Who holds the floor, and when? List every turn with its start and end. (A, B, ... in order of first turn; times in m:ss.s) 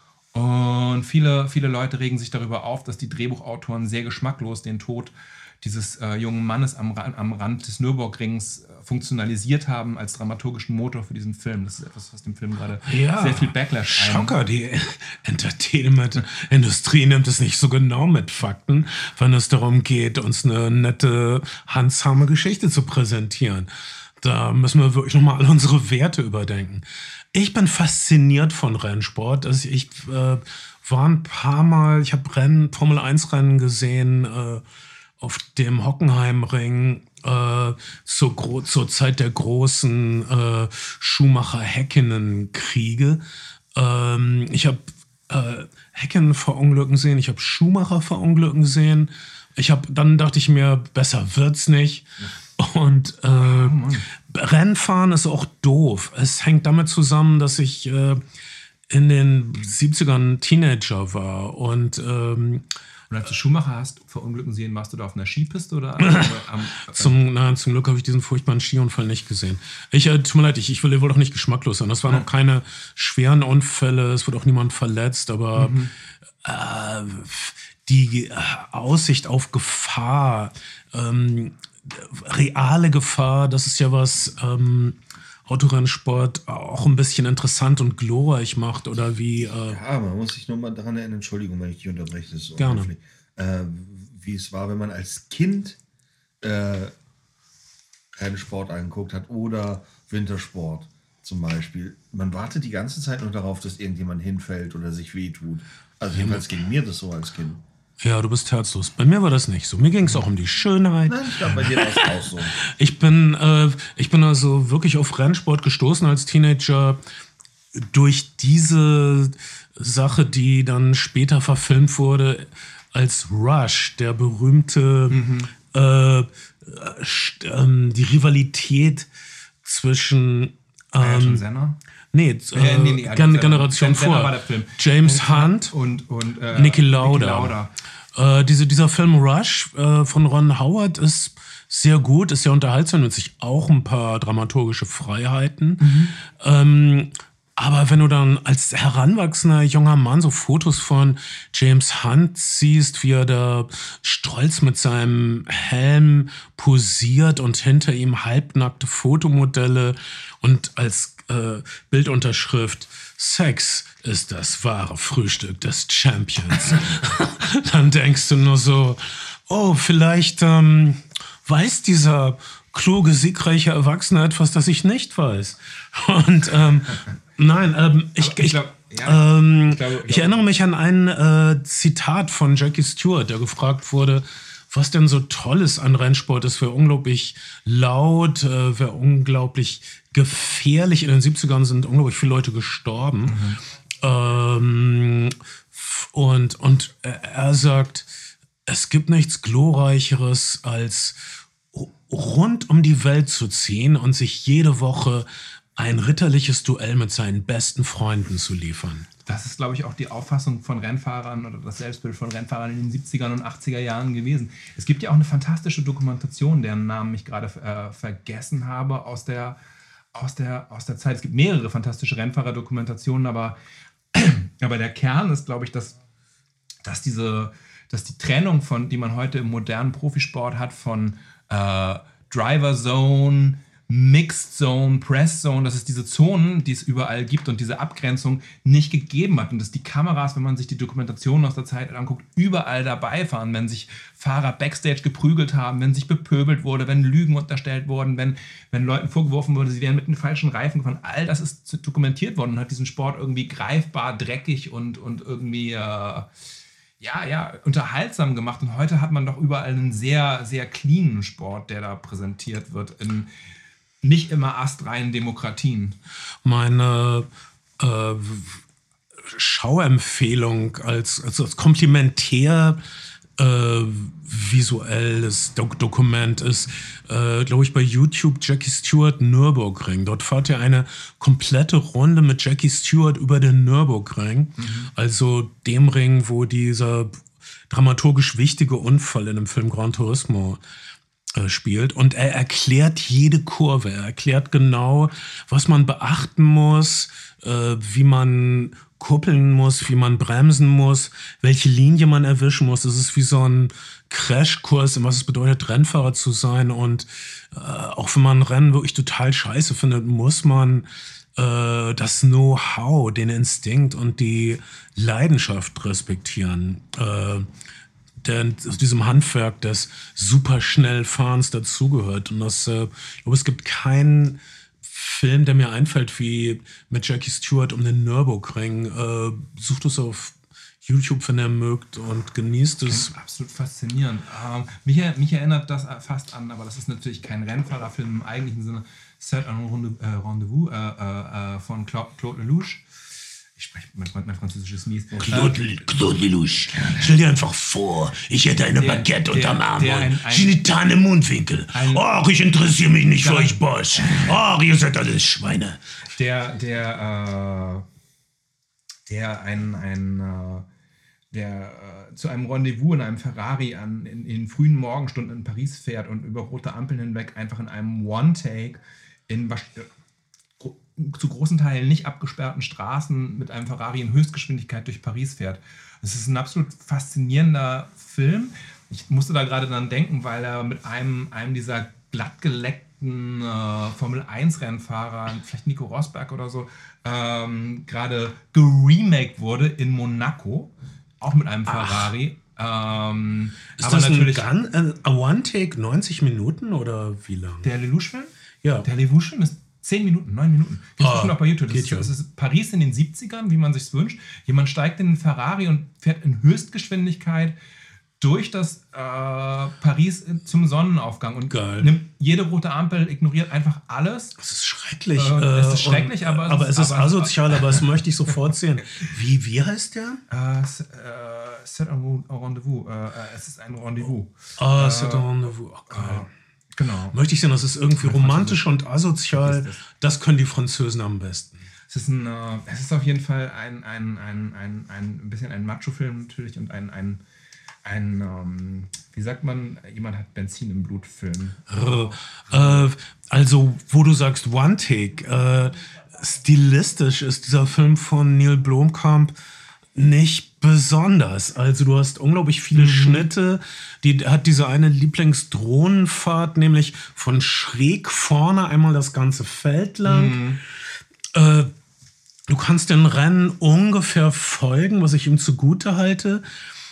0:00.3-0:14.4 A
0:12.9-0:23.7 B
0:24.2-0:34.6 B
0:35.2-0:43.2 B
0:43.8-0:58.2 B
0:53.3-0:54.1 A
0:58.9-1:02.6 B
1:03.1-1:07.1 A
1:06.0-1:06.3 B
1:06.9-1:15.8 B
1:15.6-1:15.9 A
1:16.4-1:29.8 B
1:29.7-1:35.8 C
1:32.6-1:32.9 B
1:36.4-1:36.9 C
1:38.1-1:47.6 C
1:46.2-1:46.4 B
1:48.0-1:57.0 B
1:51.1-1:52.6 C
1:57.7-2:09.1 B
2:05.1-2:05.5 A
2:09.6-2:11.4 B
2:11.0-2:11.8 A
2:12.1-2:15.7 B
2:12.5-2:17.7 A
2:16.5-2:17.6 B
2:18.1-3:13.4 B
2:25.8-2:26.1 A
2:58.2-3:00.4 A
3:13.3-3:13.6 A
3:14.0-3:18.1 B
3:18.6-3:29.1 B
3:29.2-3:39.6 A
3:40.1-3:43.6 A
3:44.1-3:46.0 A
3:46.8-4:16.3 A
4:17.0-4:23.3 A
4:24.0-4:26.0 A
4:26.4-4:27.3 B
4:27.8-4:28.6 B
4:29.2-4:32.8 B
4:33.4-4:50.6 B
4:44.6-4:44.9 A
4:51.3-5:17.5 B
5:18.2-5:33.1 B
5:32.9-5:42.8 A
5:43.6-5:45.6 A
5:45.2-5:55.8 B
5:46.7-5:47.1 A
5:48.8-5:50.6 A
5:51.7-5:52.0 A
5:53.2-5:54.4 A
5:56.1-5:57.8 A
5:59.1-6:00.6 A
6:01.3-6:09.9 A
6:10.6-6:34.5 A
6:31.7-6:32.1 B
6:33.8-6:37.7 B
6:37.6-6:38.3 A
6:38.8-6:47.6 A
6:41.0-6:42.1 B
6:48.2-6:54.4 A
6:51.5-6:51.9 B
6:54.4-7:00.2 B
6:55.1-6:57.8 A
7:00.3-7:05.3 A
7:04.6-7:06.3 B
7:05.9-7:07.2 A
7:07.1-7:11.6 B
7:08.0-7:08.7 A
7:09.3-7:09.8 A
7:11.9-7:17.2 A
7:17.8-7:22.9 A
7:21.7-7:29.3 B
7:30.0-7:40.4 B
7:32.7-7:33.3 A
7:40.0-7:40.6 A
7:41.3-7:41.7 B
7:42.5-7:46.4 B